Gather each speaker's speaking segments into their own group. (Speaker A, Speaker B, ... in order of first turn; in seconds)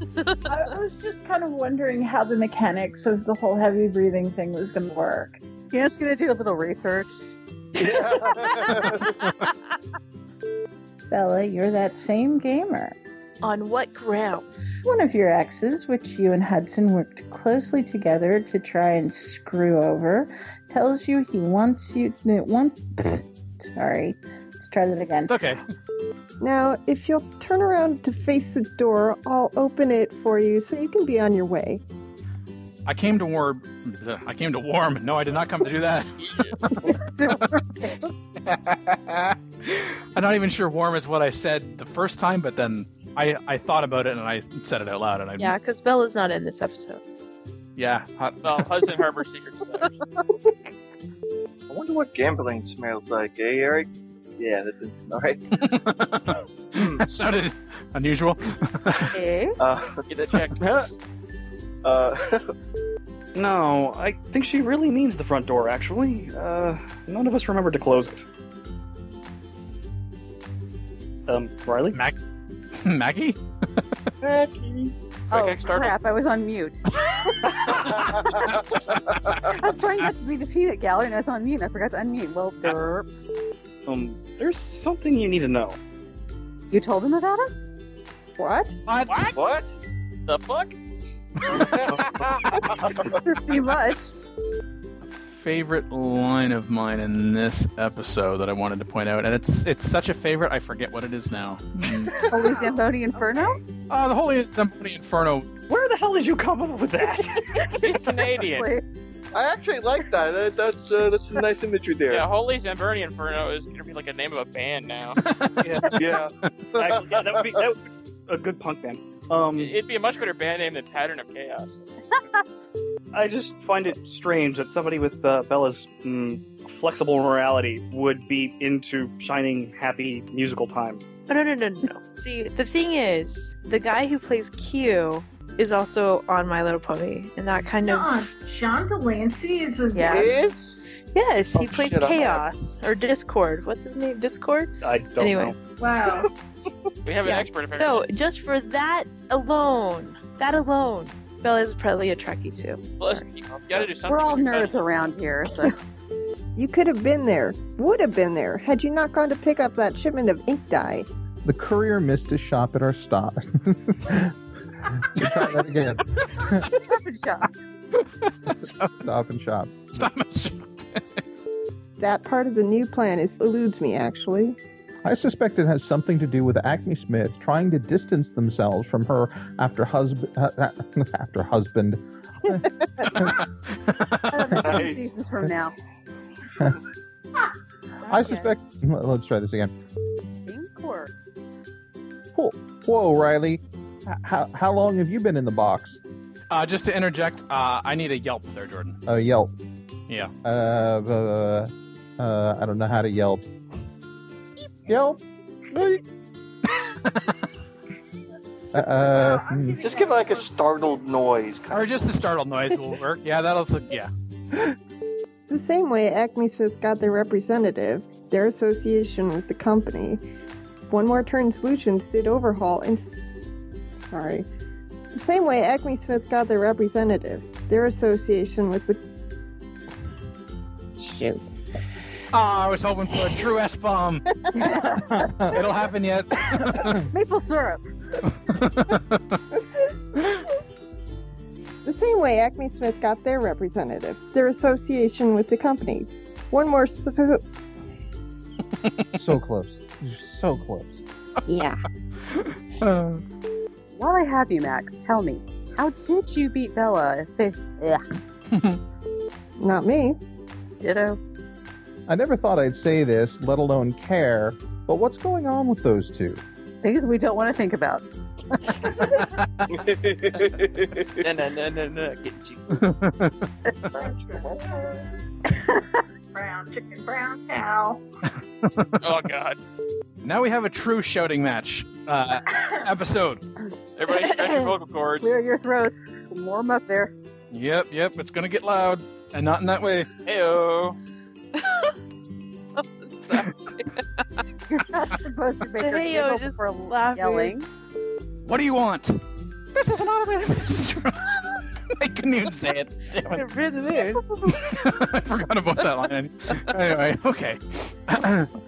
Speaker A: 0.2-0.7, 13.4-14.8, 45.4-47.0, 59.1-59.6, 131.3-138.3, 139.9-140.3, 141.1-145.6, 147.2-153.3, 188.0-188.6, 291.6-291.9, 292.8-294.2, 295.8-297.6, 303.3-304.6
Speaker B: 0.5-5.4, 11.1-13.0, 14.8-25.4
Speaker C: 5.7-7.3, 36.8-38.0, 75.3-78.7, 79.5-83.1, 86.7-87.6, 93.2-94.1, 102.3-103.6, 107.6-108.8, 154.0-155.7, 166.7-167.5, 184.2-185.7, 190.5-191.5, 234.5-235.4, 236.7-237.8, 253.9-258.0, 260.8-261.2, 266.8-268.0, 268.6-269.0, 284.3-284.6, 285.2-287.1, 294.7-297.6
Speaker D: 7.8-9.1, 51.7-55.4, 56.7-57.0, 59.0-60.0, 61.8-62.4, 74.2-74.9, 89.3-89.7, 91.7-92.9, 102.1-102.8, 109.3-112.3, 115.9-117.6, 140.1-140.8, 141.5-142.4, 184.6-185.1, 209.8-212.0, 269.7-271.3, 274.0-274.7
Speaker E: 25.3-25.6, 32.9-36.9, 38.4-45.5, 47.8-49.0, 55.5-59.0, 71.9-72.2, 72.7-73.9, 88.9-89.3, 91.5-91.8, 95.1-102.2, 103.9-105.6, 115.2-116.1, 168.0-169.1, 169.9-171.2, 183.9-184.4, 196.5-199.0, 206.7-207.3, 211.7-214.1, 232.3-234.4, 235.5-236.8, 238.5-239.2, 252.3-253.2, 258.5-258.8, 272.7-273.4, 278.6-279.0, 280.2-283.5, 287.5-290.1, 298.4-299.2, 299.7-303.5, 304.4-308.5
Speaker F: 26.4-31.8, 88.4-88.8, 156.6-161.1, 172.0-174.6, 215.5-220.2, 220.9-223.2, 224.0-224.5, 225.1-229.0, 231.0-231.5, 241.8-247.4, 251.5-251.8, 259.6-260.2
Speaker G: 36.2-36.6, 48.4-50.0, 60.1-60.5, 75.3-76.0, 89.1-89.4, 90.3-90.8, 107.8-108.7, 112.1-115.2, 119.5-121.8, 147.1-148.1, 153.0-155.2, 271.2-272.9, 279.0-279.6, 284.0-285.4, 290.2-291.0
Speaker H: 60.6-60.9, 63.3-68.3, 71.3-72.0, 83.8-85.8, 105.7-107.8, 115.6-115.9, 116.8-119.8, 123.1-131.0, 144.8-145.6
Speaker I: 137.8-140.3, 145.8-146.2, 209.1-210.5, 276.9-278.0
Speaker J: 161.4-164.3, 165.0-166.6, 169.0-169.9, 175.0-183.4, 188.1-189.7, 192.3-196.0, 199.1-199.5, 200.4-203.4, 204.9-206.0, 208.7-209.9, 249.1-251.0, 262.1-266.4